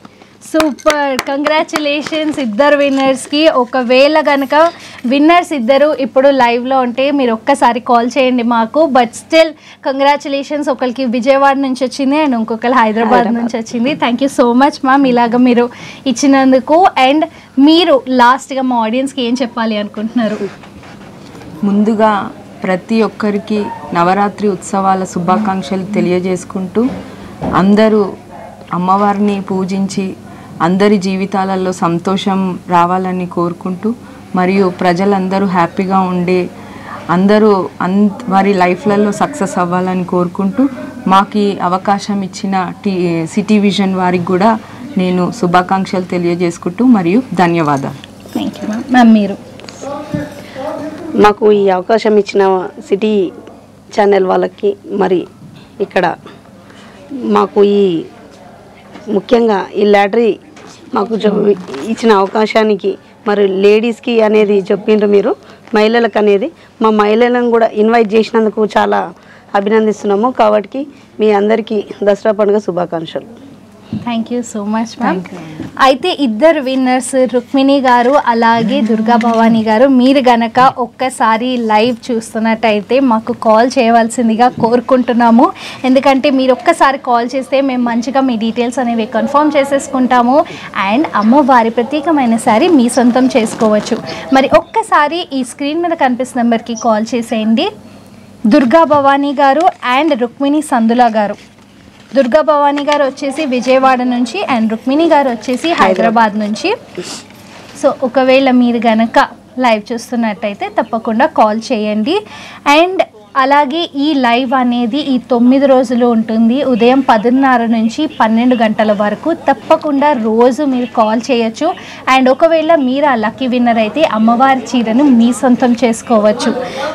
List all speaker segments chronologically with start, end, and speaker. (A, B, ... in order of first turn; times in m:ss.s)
0:00.4-0:20.4 A
0:13.0-0:13.5 B
0:21.6-0:26.8 C
0:27.6-0:28.0 C
0:28.7-0:30.1 C
0:30.6-0:36.4 C
0:37.1-0:47.9 C
0:48.3-0:49.4 A
0:51.2-0:53.2 B
0:53.9-0:55.2 B
0:55.8-0:56.1 B
0:57.3-0:58.0 B
0:59.1-1:00.3 B
1:00.9-1:09.0 B
1:09.5-1:13.3 B
1:14.0-1:15.2 A
1:15.0-1:15.4 C
1:15.8-1:37.7 A
1:38.5-1:41.4 A
1:42.1-1:46.7 A
1:45.8-1:46.2 B
1:47.8-1:52.2 A
1:52.7-2:06.5 A